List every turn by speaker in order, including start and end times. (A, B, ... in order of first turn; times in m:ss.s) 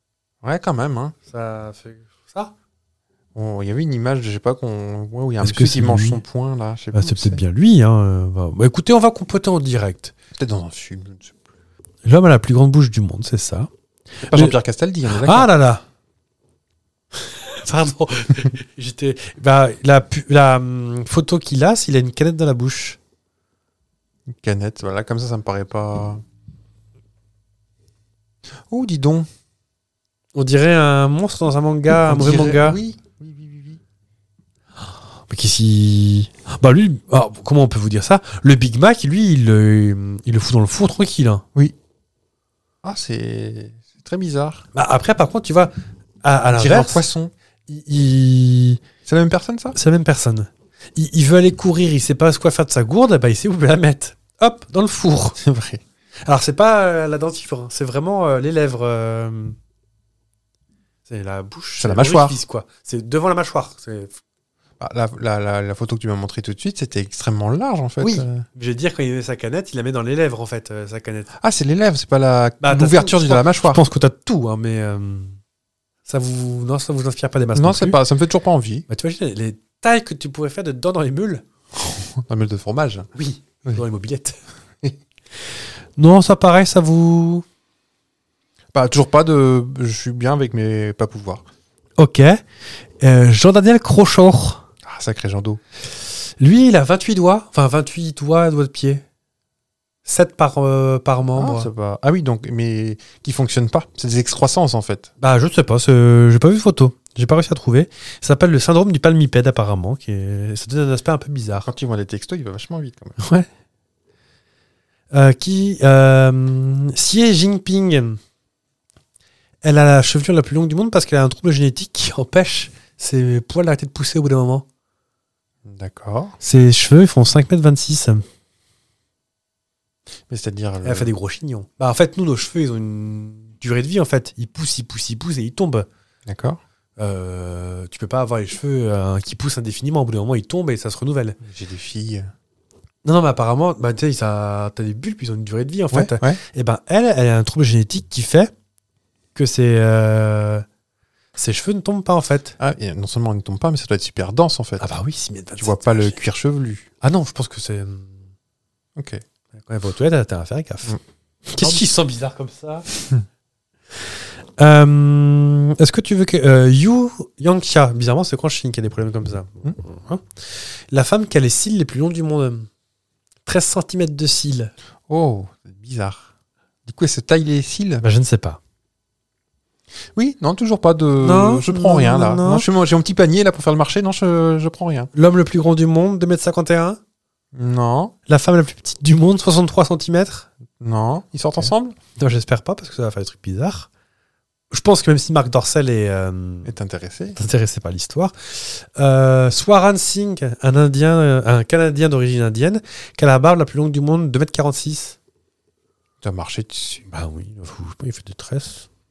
0:00.4-0:01.2 A
0:01.3-0:02.5 B
0:03.4-0:07.4 A
0:05.4-0:06.2 B
0:06.9-0:10.1 B
0:10.4-0:11.4 A
0:12.0-0:13.7 B
0:14.2-0:15.5 A
0:14.2-0:14.6 B
0:15.2-0:15.8 B
0:17.2-0:23.0 B
0:24.3-0:26.2 A
0:28.7-0:29.3 A
0:30.3-0:32.8 B
0:31.9-0:33.8 A
0:35.3-0:41.4 B
0:42.8-0:44.7 A
0:44.7-0:47.0 B
0:46.5-0:47.3 A
0:47.7-0:48.8 B
0:49.0-0:49.8 A
0:49.8-0:55.4 B
0:55.4-0:55.8 A
0:56.3-0:59.6 B
1:01.1-1:04.2 B
1:01.8-1:02.4 A
1:04.8-1:08.4 A
1:08.0-1:11.3 B
1:11.4-1:13.8 A
1:12.6-1:15.4 B
1:16.1-1:18.0 B
1:17.6-1:18.9 A
1:18.9-1:21.4 B
1:21.8-1:23.1 A
1:23.2-1:24.4 B
1:26.0-1:27.4 B
1:28.7-1:31.4 A
1:32.0-1:32.4 B
1:33.0-1:34.6 B
1:34.8-1:35.6 A
1:36.4-1:39.0 B
1:40.1-1:41.7 B
1:41.4-1:45.1 A
1:45.2-1:51.7 B
1:51.6-1:53.2 A
1:53.2-1:53.5 B
1:55.1-1:58.2 B
1:59.6-2:04.6 B
2:05.7-2:06.4 A
2:06.4-2:08.2 B
2:10.3-2:11.1 A
2:10.8-2:15.9 B
2:16.3-2:16.6 A
2:17.0-2:21.4 B
2:21.4-2:22.3 A
2:23.0-2:28.5 B
2:25.9-2:26.4 A
2:29.4-2:30.6 B
2:31.4-2:32.6 B
2:32.6-2:34.9 A
2:34.8-2:36.2 B
2:35.6-2:36.9 A
2:37.0-2:38.2 B
2:39.0-2:39.2 A
2:39.6-2:41.0 B
2:41.5-2:42.9 B
2:44.6-2:50.2 B
2:50.9-2:52.7 B
2:53.5-2:54.7 B
2:55.1-2:56.3 A
2:56.9-2:58.0 A
2:58.0-2:58.6 B
3:00.2-3:05.1 A
3:01.2-3:02.7 B
3:05.1-3:07.0 B
3:07.5-3:08.1 A
3:08.3-3:10.5 B
3:10.8-3:12.0 A
3:12.2-3:13.9 B
3:14.7-3:16.7 B
3:16.6-3:17.4 A
3:17.4-3:25.2 B
3:26.2-3:27.1 A
3:27.1-3:28.9 B